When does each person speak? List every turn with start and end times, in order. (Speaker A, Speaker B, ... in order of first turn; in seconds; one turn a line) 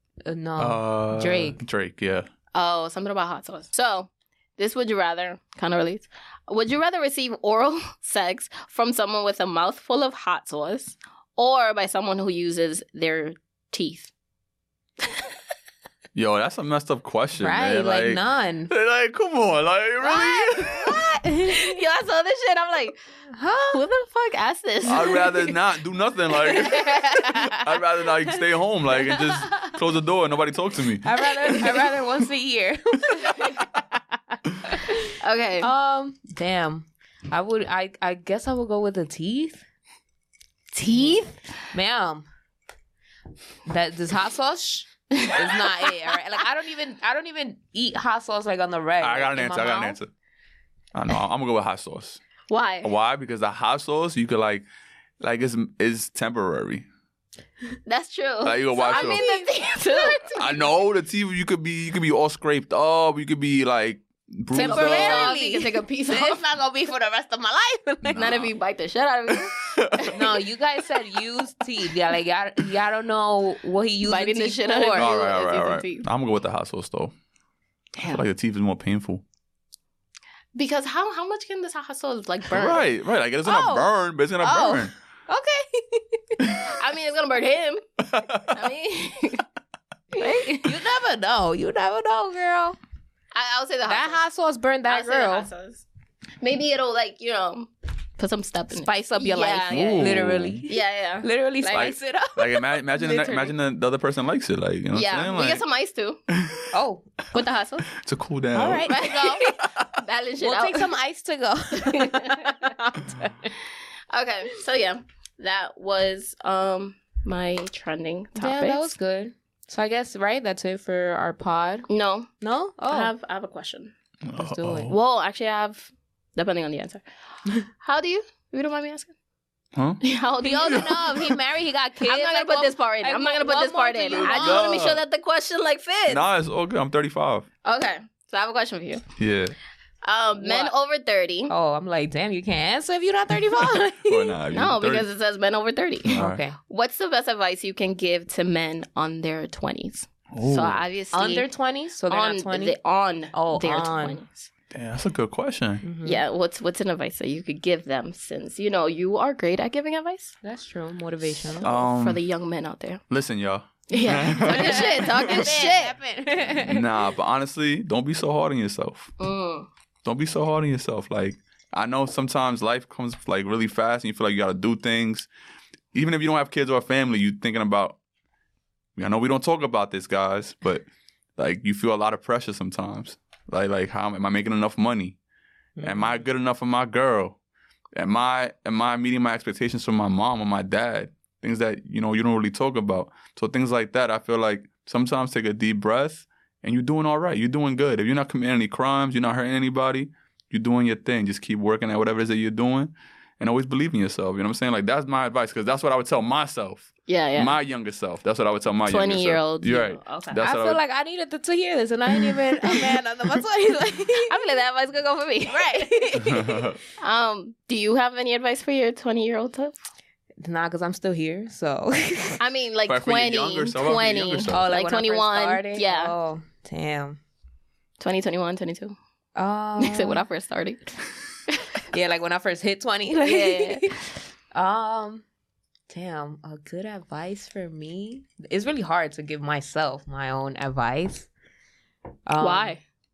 Speaker A: 0.3-1.6
Speaker B: 0.6-2.3
Speaker C: 2.5-14.1
Speaker B: 16.1-21.0
Speaker A: 17.4-18.7
Speaker C: 20.1-20.8
Speaker A: 20.6-21.8
Speaker C: 21.4-23.0
Speaker A: 23.3-23.8
Speaker C: 23.7-25.6
Speaker B: 24.9-31.5
Speaker C: 26.5-27.2
Speaker A: 26.5-27.6
Speaker A: 31.0-39.6
Speaker C: 35.2-35.7
Speaker C: 40.7-41.3
Speaker A: 40.9-41.2
Speaker A: 41.7-42.3
Speaker A: 43.7-49.8
Speaker C: 45.1-45.9
Speaker B: 49.0-50.1
Speaker C: 49.4-50.0
Speaker B: 50.9-52.2
Speaker C: 52.5-52.9
Speaker B: 52.8-54.7
Speaker B: 55.2-56.9
Speaker C: 57.9-60.6
Speaker B: 58.4-59.2
Speaker A: 58.8-60.1
Speaker B: 60.3-65.3
Speaker A: 64.5-68.3
Speaker C: 64.5-66.4
Speaker B: 68.0-68.5
Speaker C: 68.2-70.3
Speaker B: 69.7-70.1
Speaker A: 70.1-75.1
Speaker C: 74.0-76.1
Speaker B: 75.0-77.1
Speaker B: 78.0-79.2
Speaker C: 80.5-82.8
Speaker B: 82.5-84.9
Speaker A: 83.5-83.9
Speaker A: 84.4-86.5
Speaker B: 86.4-86.7
Speaker C: 86.6-87.8
Speaker B: 88.1-88.6
Speaker C: 88.4-89.4
Speaker C: 90.1-90.8
Speaker A: 90.2-92.8
Speaker C: 93.3-94.2
Speaker A: 93.9-95.5
Speaker C: 94.9-95.8
Speaker C: 96.4-101.9
Speaker A: 98.7-103.5
Speaker B: 99.7-100.6
Speaker B: 101.7-105.6
Speaker C: 104.9-106.2
Speaker B: 106.3-106.7
Speaker A: 106.7-107.1
Speaker C: 107.3-107.9
Speaker B: 107.9-109.0
Speaker A: 108.5-109.6
Speaker C: 108.9-110.9
Speaker A: 110.4-113.5
Speaker C: 111.8-112.8
Speaker C: 114.1-118.9
Speaker A: 118.4-121.9
Speaker C: 121.9-122.3
Speaker A: 122.4-123.1
Speaker C: 122.9-123.9
Speaker B: 124.3-125.0
Speaker A: 124.4-124.9
Speaker C: 124.9-127.0
Speaker C: 127.7-129.1
Speaker B: 129.8-130.0
Speaker C: 130.0-131.4
Speaker A: 130.4-134.8
Speaker C: 132.0-136.3
Speaker B: 134.2-135.0
Speaker B: 136.1-137.5
Speaker C: 137.6-139.0
Speaker B: 139.2-139.6
Speaker C: 140.0-141.5
Speaker A: 140.4-140.7
Speaker A: 141.5-144.3
Speaker B: 144.0-145.1
Speaker C: 144.5-151.5
Speaker B: 146.1-146.4
Speaker A: 146.1-146.6
Speaker B: 150.3-150.8
Speaker A: 151.1-152.8
Speaker C: 152.1-154.5
Speaker A: 153.3-154.2
Speaker B: 154.7-155.8
Speaker A: 155.8-156.2
Speaker C: 156.0-160.4
Speaker A: 160.4-161.7
Speaker C: 161.4-163.0
Speaker B: 161.6-162.2
Speaker B: 163.1-165.4
Speaker C: 163.9-166.0
Speaker A: 164.0-166.9
Speaker B: 166.6-169.1
Speaker C: 169.2-169.7
Speaker B: 170.0-175.3
Speaker B: 175.9-178.0
Speaker B: 179.0-180.9
Speaker B: 181.4-185.2
Speaker A: 185.8-186.2
Speaker B: 185.8-187.4
Speaker B: 187.9-210.8
Speaker C: 207.1-207.6
Speaker C: 208.9-210.4
Speaker A: 210.4-214.4
Speaker C: 214.1-216.1
Speaker A: 215.5-216.6
Speaker B: 216.2-216.8
Speaker C: 217.0-219.8
Speaker A: 220.4-222.4
Speaker C: 222.4-226.1
Speaker B: 222.9-224.7
Speaker A: 224.5-227.2
Speaker C: 228.0-229.0
Speaker A: 229.4-230.2
Speaker C: 229.8-231.7
Speaker A: 231.9-235.2
Speaker C: 233.2-233.9
Speaker A: 235.9-241.3
Speaker A: 242.3-242.8
Speaker C: 242.4-242.8